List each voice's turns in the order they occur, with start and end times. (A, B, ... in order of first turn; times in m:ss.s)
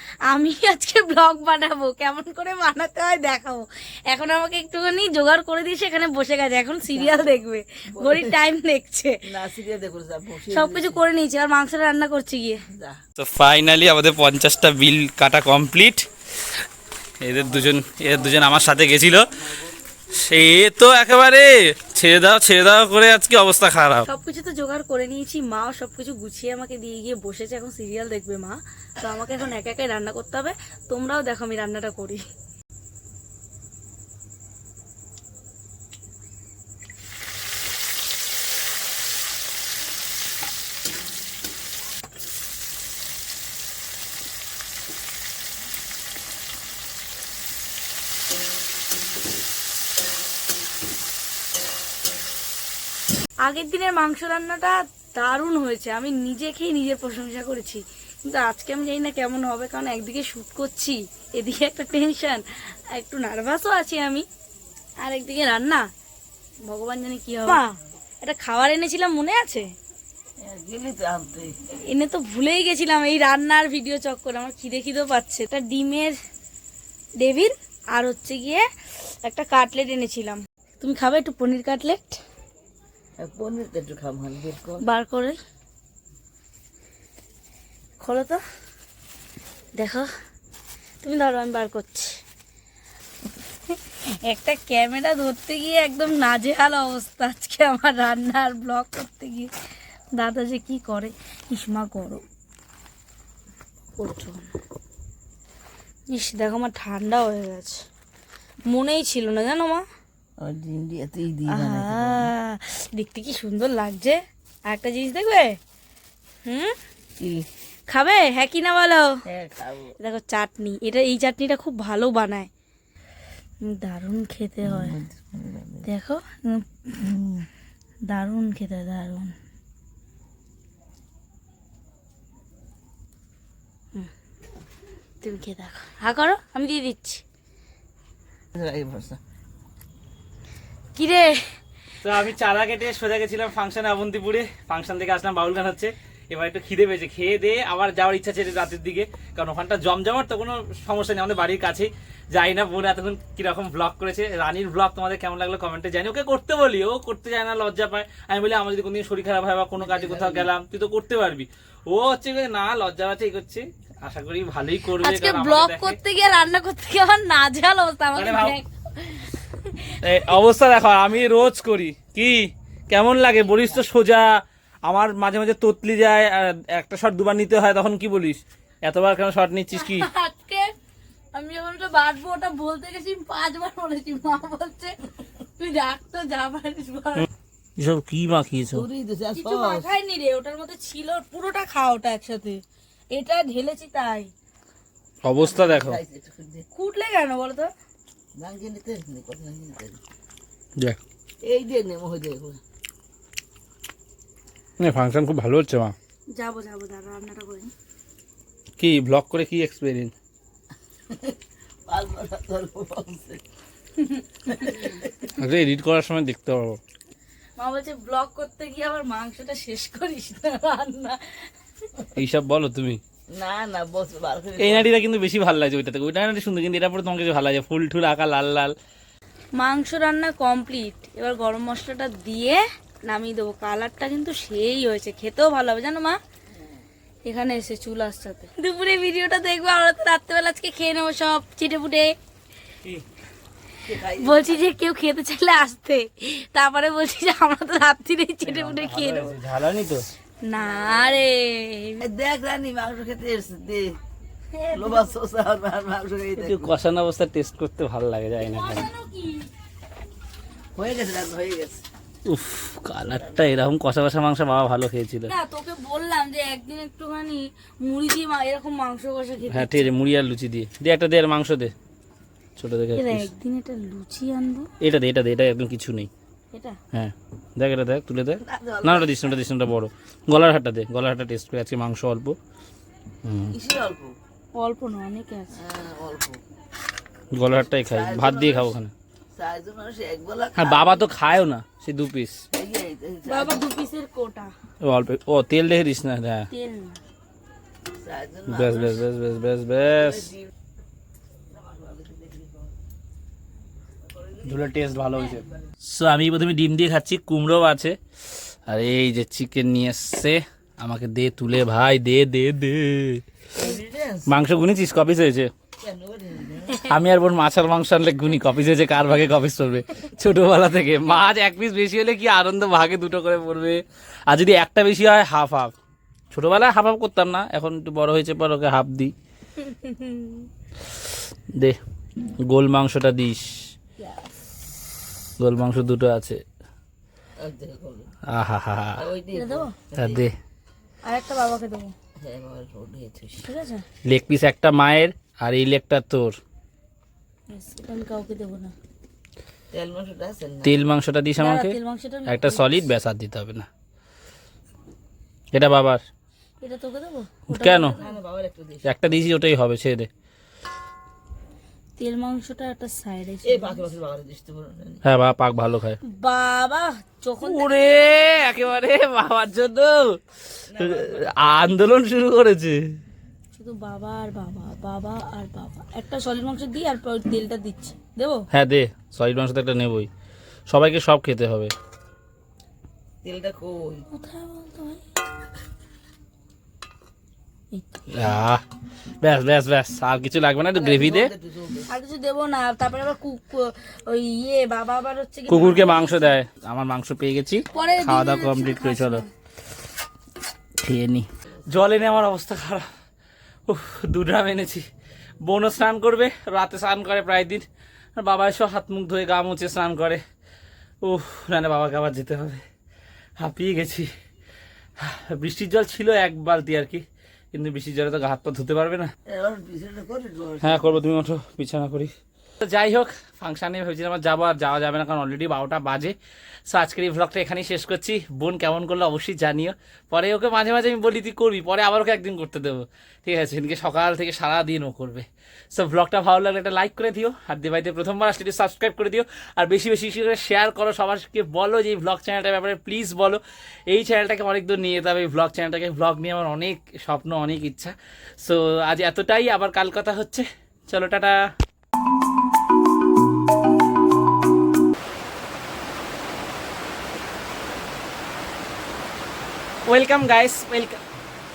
0:00.3-0:09.2 A
0:06.9-0:07.3 B
0:07.9-0:08.4 B
0:09.3-0:11.0 B
0:10.5-0:12.6 A
0:12.7-0:13.0 B
0:13.2-0:16.1 C
0:17.2-0:19.3 C
0:20.2-0:24.1 C
0:24.0-0:32.2 A
0:53.4-1:02.4 A
1:02.9-1:04.2 A
1:05.0-1:05.9 A
1:06.6-1:07.6 A
1:08.2-1:09.7 A
1:10.4-1:11.6 B
1:11.9-1:16.2 A
1:17.2-1:18.6 A
1:19.2-1:22.2 A
1:23.2-1:24.8 B
1:24.8-1:25.4 A
1:28.0-1:28.4 A
1:29.8-1:30.1 A
1:31.0-1:32.2 A
1:34.2-1:39.5 A
1:40.2-1:42.2 A
1:44.0-1:44.4 A
1:46.1-1:47.8 A
1:48.7-1:49.8 A
1:50.4-1:52.3 B
1:51.5-1:55.6 A
1:56.4-1:56.8 A
1:57.2-1:57.5 B
1:57.9-1:59.0 A
1:59.3-1:59.9 B
2:00.0-2:02.5 A
2:03.6-2:05.0 A
2:04.6-2:05.8 B
2:05.8-2:07.3 A
2:08.1-2:09.3 A
2:15.2-2:17.2 A
2:18.5-2:19.2 B
2:20.9-2:21.4 A
2:22.0-2:46.0 C
2:39.8-2:40.5 B
2:45.0-2:50.0 A
2:48.1-2:48.6 C
2:50.0-2:54.3 C
2:54.8-3:00.1 C
2:59.7-3:00.7 A
3:01.3-3:07.3 A
3:07.8-3:08.9 C
3:08.7-3:09.9 B
3:09.3-3:12.6 A
3:13.1-3:14.3 A
3:15.2-3:16.0 C
3:15.4-3:16.6 B
3:16.7-3:17.7 A
3:18.3-3:20.0 B
3:21.4-3:22.6 B
3:24.8-3:25.9 C
3:26.3-3:27.7 A
3:28.8-3:30.1 C
3:31.1-3:33.4 B
3:34.0-3:34.8 A
3:34.5-3:35.1 B
3:35.3-3:36.8 C
3:37.6-3:41.5 A
3:42.2-3:43.0 C
3:43.3-3:44.9 B
3:44.6-3:48.7 C
3:49.6-3:56.2 A
3:57.2-4:02.1 A
4:03.8-4:04.7 B
4:04.1-4:09.4 A
4:08.4-4:10.0 C
4:10.4-4:12.0 A
4:10.6-4:11.2 B
4:12.0-4:14.0 B
4:14.6-4:15.1 A
4:14.7-4:16.7 B
4:16.4-4:18.9 C
4:18.4-4:19.5 A
4:20.8-4:21.8 B
4:22.2-4:25.3 C
4:25.3-4:29.9 A
4:29.5-4:31.7 C
4:32.6-4:33.3 C
4:33.0-4:34.7 A
4:34.8-4:36.1 C
4:36.5-4:36.8 A
4:36.9-4:42.4 C
4:38.4-4:39.3 B
4:43.2-4:43.6 C
4:43.5-4:44.1 B
4:44.6-4:45.6 A
4:45.5-4:46.4 B
4:47.3-4:48.9 C
4:47.8-4:48.8 B
4:49.3-4:51.0 B
4:50.6-4:52.4 C
4:52.5-4:53.6 B
4:53.2-4:54.5 A
4:54.8-4:56.5 C
4:56.5-4:57.0 A
4:58.0-4:59.0 B
4:58.5-5:00.3 C
5:01.5-5:02.7 B
5:04.4-5:08.0 C
5:08.7-5:13.2 C
5:13.6-5:14.4 B
5:14.3-5:15.5 C
5:15.8-5:16.8 B
5:16.9-5:25.7 C
5:26.3-5:29.1 C
5:29.6-5:30.5 A
5:32.5-5:33.6 C
5:35.4-5:36.4 C
5:37.4-5:38.1 B
5:38.3-5:39.1 C
5:39.0-5:40.2 B
5:39.3-5:39.7 A
5:40.0-5:40.3 C
5:41.0-5:41.9 A
5:42.2-5:43.5 B
5:43.4-5:43.8 A
5:44.0-5:46.4 C
5:47.5-5:48.7 A
5:49.7-5:50.8 B
5:50.6-5:53.7 C
5:51.4-5:52.8 A
5:55.5-5:56.0 C
5:56.6-5:58.0 A
5:57.5-5:58.0 C
5:58.0-5:59.0 B
5:58.8-6:00.1 C
6:02.0-6:03.8 A
6:03.4-6:05.0 B
6:05.0-6:06.0 C
6:06.0-6:08.1 A
6:07.4-6:12.8 C
6:10.7-6:11.3 B
6:13.5-6:18.5 A
6:18.5-6:20.1 C
6:20.7-6:21.7 C
6:23.2-6:24.0 B
6:24.1-6:25.0 A
6:27.7-6:28.0 A
6:28.1-6:28.6 C
6:29.2-6:31.3 C
6:30.7-6:31.9 B
6:31.9-6:36.3 A
6:35.5-6:39.2 C
6:37.7-6:39.3 A
6:40.8-6:42.8 C
6:43.7-6:44.8 C
6:45.4-6:47.6 C
6:48.2-6:50.2 C
6:51.0-6:52.6 C
6:53.4-6:54.1 C
6:55.0-6:59.1 C
6:59.3-7:01.0 B
7:00.6-7:06.1 C
7:06.7-7:31.4 C
7:39.9-7:41.0 C